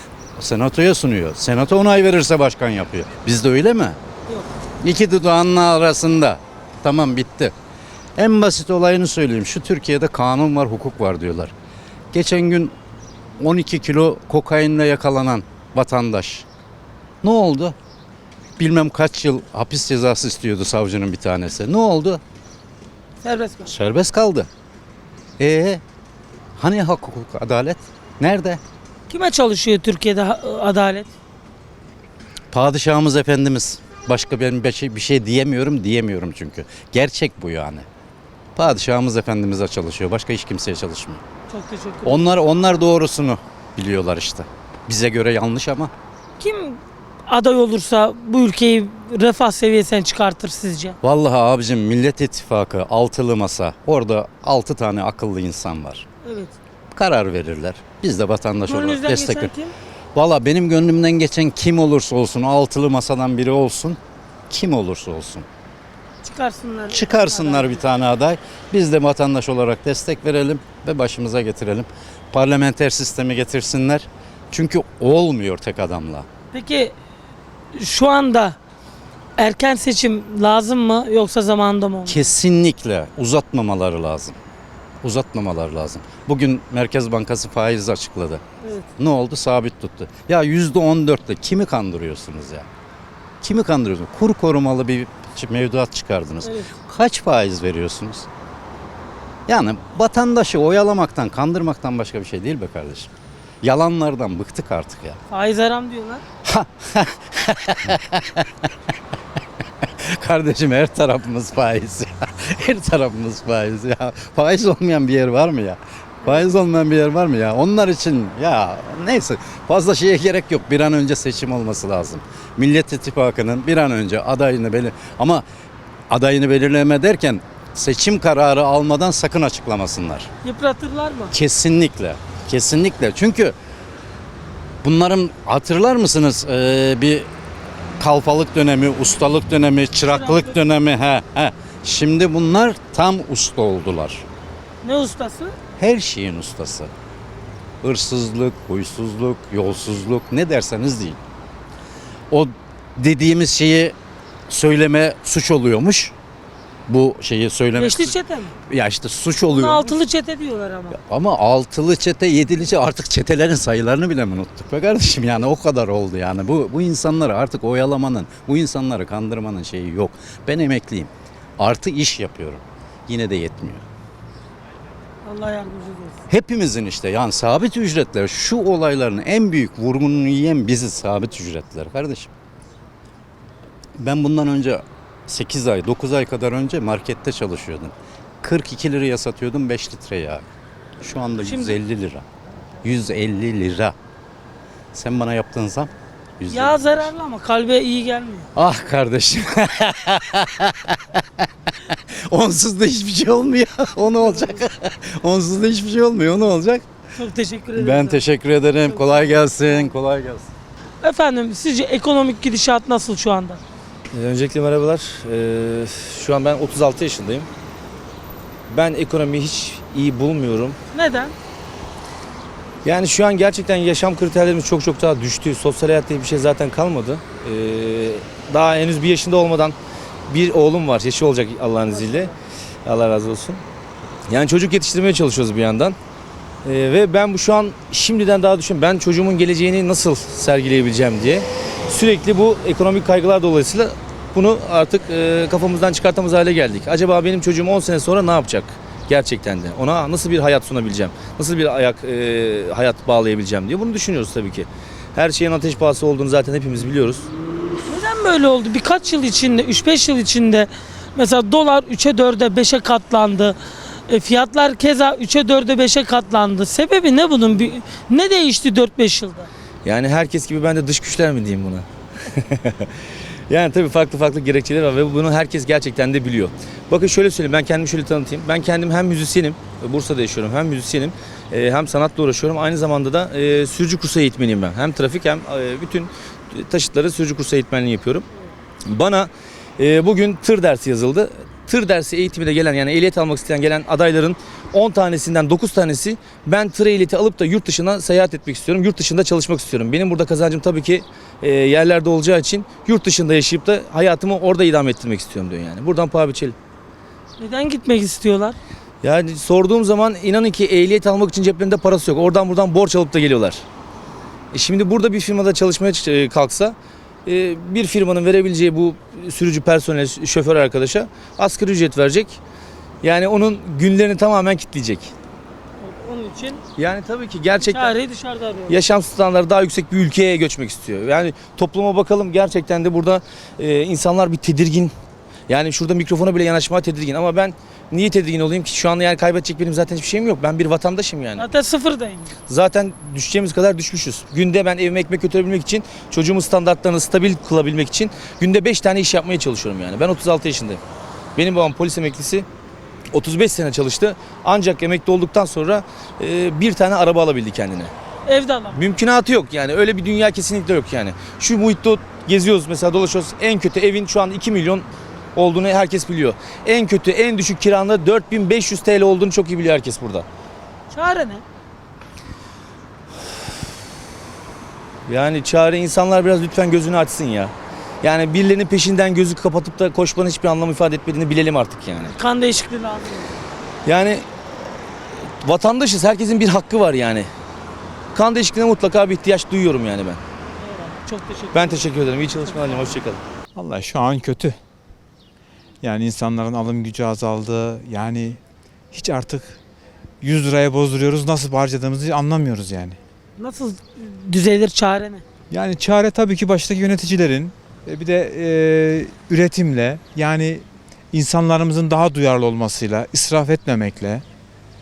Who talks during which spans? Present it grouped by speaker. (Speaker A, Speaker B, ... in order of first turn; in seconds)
Speaker A: 0.4-4.0, 4.8-7.5, 8.2-11.5, 12.1-12.7, 13.4-16.4, 17.2-17.8, 18.6-22.2, 23.6-24.5, 25.4-25.8, 26.6-28.6, 32.5-37.9, 38.5-41.2, 42.0-45.9, 51.0-56.0, 56.9-59.5, 60.1-64.0, 64.5-65.5, 66.9-76.3, 82.0-84.4, 85.0-88.4, 89.0-92.7, 93.4-98.3, 99.5-103.1, 103.6-105.2, 106.4-108.7, 110.0-125.4, 126.1-130.3, 131.3-133.5, 134.8-137.3, 138.0-144.2, 145.8-146.9, 147.8-151.2, 152.3-153.9, 154.5-156.1, 156.9-158.2, 158.7-160.0, 160.9-173.8, 176.3-182.3, 184.0-190.4, 191.0-192.2, 192.8-193.9, 194.9-197.1, 198.5-206.8, 207.8-210.5
Speaker B: 23.2-23.7, 29.1-31.1, 41.5-42.3, 46.4-51.0, 56.2-56.5, 58.7-59.7, 66.2-67.8, 76.5-76.9, 77.8-78.5, 79.4-82.3, 88.6-88.9, 96.4-96.7, 105.3-106.2, 130.4-131.3, 140.1-140.6, 144.8-145.6, 157.8-158.5, 159.5-161.0, 175.2-176.2, 191.4-191.8, 196.5-198.5, 204.1-204.6, 207.2-208.2, 208.9-209.9, 211.0-213.6, 220.9-221.3, 231.9-232.3, 257.9-263.6, 264.1-269.5, 307.4-308.6, 325.8-326.6, 327.6-328.8, 341.4-342.3, 358.2-358.8, 370.9-371.4, 382.0-383.4, 390.6-392.8, 403.4-405.2
Speaker C: 214.1-217.5, 218.7-220.8, 222.8-229.7, 230.3-232.3, 232.8-233.6, 234.3-235.9, 236.6-257.3, 269.8-272.9, 273.5-288.2, 288.9-306.5, 309.0-313.6, 314.5-322.4, 323.0-325.1, 326.8-327.9, 328.7-334.9, 335.5-341.5, 342.5-350.8, 351.4-352.4, 353.1-357.9, 358.7-370.2, 375.1-382.1, 383.8-384.2, 385.4-387.3, 388.1-390.2, 391.5-393.2
Speaker D: 393.5-394.5, 395.8-398.4, 398.9-399.6, 400.2-403.0, 405.5-414.2